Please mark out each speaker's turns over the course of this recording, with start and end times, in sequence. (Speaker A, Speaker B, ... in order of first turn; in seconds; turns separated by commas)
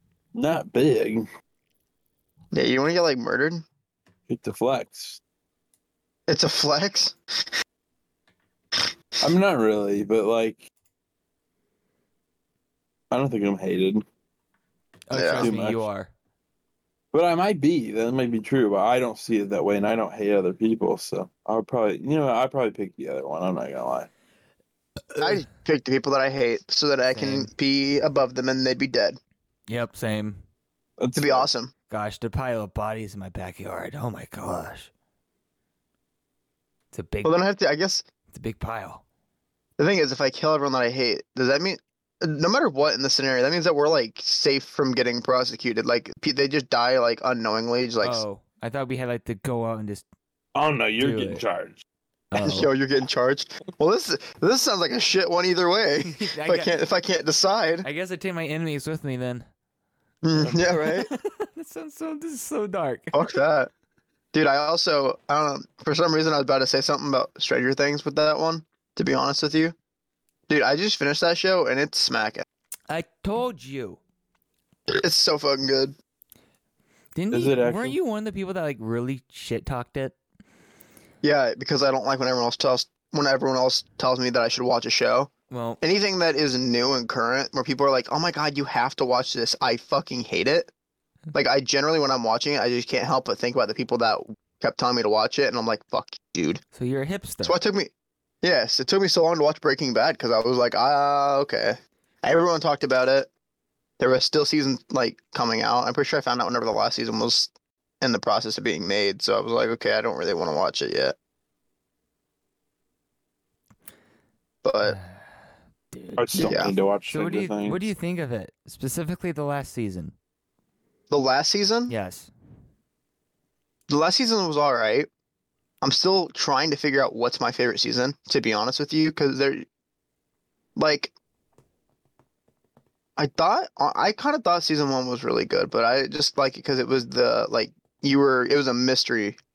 Speaker A: 0.3-1.3, Speaker B: 2.5-3.6, Speaker A: 4.3-5.2, Speaker B: 6.3-7.5, Speaker A: 9.2-10.7, Speaker A: 13.1-14.0, Speaker C: 15.1-16.1, Speaker B: 15.1-15.5, Speaker A: 15.4-15.8, Speaker A: 17.1-24.1, Speaker C: 25.1-25.4, Speaker B: 25.2-29.2, Speaker C: 27.1-27.5, Speaker C: 29.7-30.4, Speaker A: 31.0-31.5, Speaker B: 31.1-31.7, Speaker C: 31.9-34.9, Speaker C: 36.9-37.4, Speaker B: 37.2-38.0, Speaker C: 38.3-39.0, Speaker B: 39.8-48.2, Speaker C: 48.0-50.0, Speaker A: 50.5-51.8, Speaker C: 51.0-51.4, Speaker C: 52.3-52.7, Speaker B: 52.4-57.9, Speaker C: 56.0-56.7, Speaker C: 57.8-59.5, Speaker B: 60.2-61.1, Speaker C: 60.8-63.2, Speaker B: 63.1-63.7, Speaker B: 64.3-69.7, Speaker B: 70.5-72.4, Speaker C: 72.9-74.0, Speaker B: 74.9-75.9, Speaker C: 77.1-80.1, Speaker A: 77.3-78.0, Speaker B: 81.2-85.3, Speaker C: 85.5-85.8, Speaker B: 85.8-90.7, Speaker B: 91.3-96.6, Speaker C: 96.7-97.6, Speaker B: 97.4-97.9, Speaker B: 98.4-103.3, Speaker B: 104.0-111.1, Speaker B: 114.6-115.0, Speaker C: 114.8-115.2, Speaker C: 115.9-120.1, Speaker A: 116.2-117.8, Speaker B: 116.4-116.7, Speaker B: 121.1-121.9, Speaker C: 121.9-122.3, Speaker B: 123.9-125.1, Speaker B: 125.8-129.6, Speaker B: 130.8-131.1, Speaker B: 133.2-139.4